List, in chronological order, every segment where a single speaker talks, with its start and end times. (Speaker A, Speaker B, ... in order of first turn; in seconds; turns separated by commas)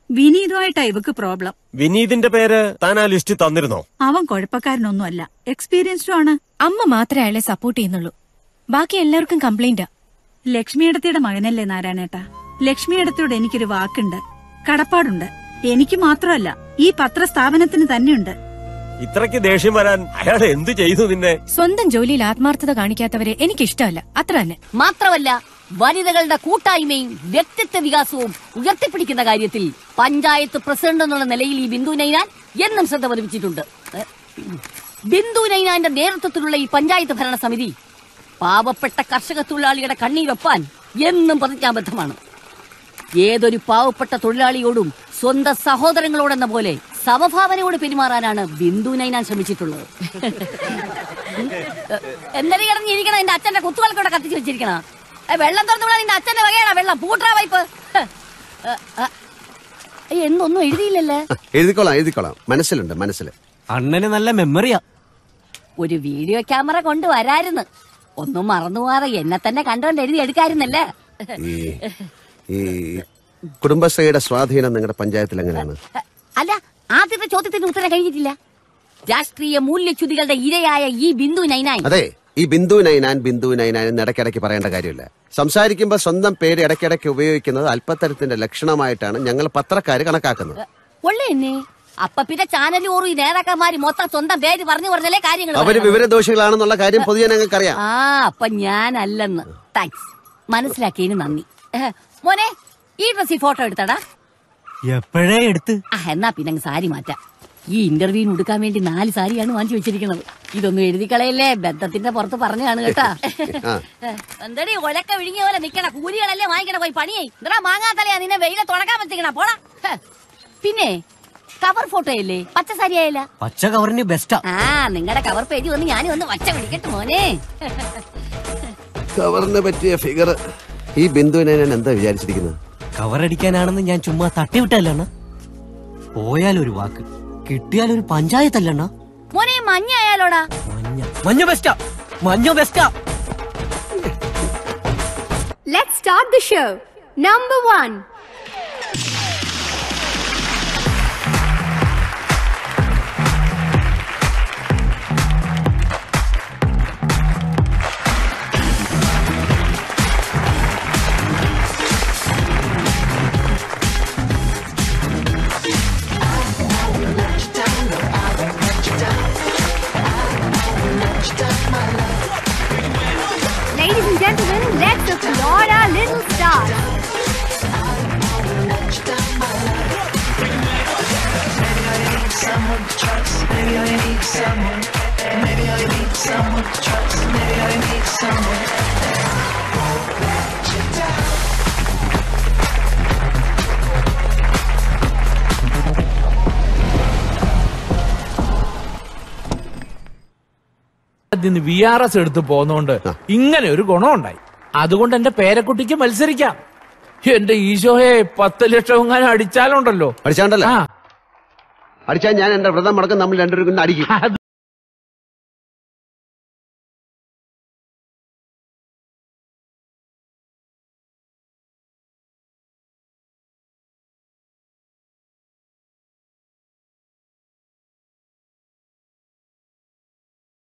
Speaker A: 0.1-1.5, Speaker B: 1.8-3.8, Speaker A: 4.0-6.4, Speaker C: 6.6-8.1, Speaker C: 8.7-9.9, Speaker A: 10.5-18.3, Speaker B: 19.0-21.4, Speaker C: 21.5-24.6, Speaker D: 24.8-34.6, Speaker D: 35.1-37.7, Speaker D: 38.4-42.2, Speaker D: 43.2-50.7, Speaker D: 51.4-58.1, Speaker D: 58.7-59.1, Speaker D: 60.1-61.2, Speaker E: 61.5-63.3, Speaker F: 63.7-64.8, Speaker D: 65.8-67.7, Speaker D: 68.2-70.8, Speaker E: 71.4-71.8, Speaker E: 72.5-73.0, Speaker E: 73.6-75.8, Speaker D: 76.4-78.3, Speaker D: 79.1-81.9, Speaker E: 81.8-90.6, Speaker D: 90.6-96.0, Speaker E: 95.5-97.8, Speaker D: 97.8-104.0, Speaker F: 104.9-105.8, Speaker D: 106.0-107.2, Speaker D: 107.7-113.6, Speaker E: 112.9-113.8, Speaker D: 114.1-120.0, Speaker D: 120.6-121.0, Speaker D: 121.6-123.2, Speaker F: 123.4-124.4, Speaker D: 124.5-127.8, Speaker E: 129.2-130.4, Speaker E: 131.0-132.6, Speaker F: 133.0-135.1, Speaker F: 136.2-138.9, Speaker D: 139.3-140.4, Speaker F: 140.7-142.9, Speaker G: 145.7-148.0, Speaker G: 173.7-176.8, Speaker H: 201.3-206.6, Speaker H: 207.2-210.8, Speaker E: 210.2-210.7, Speaker E: 212.1-214.1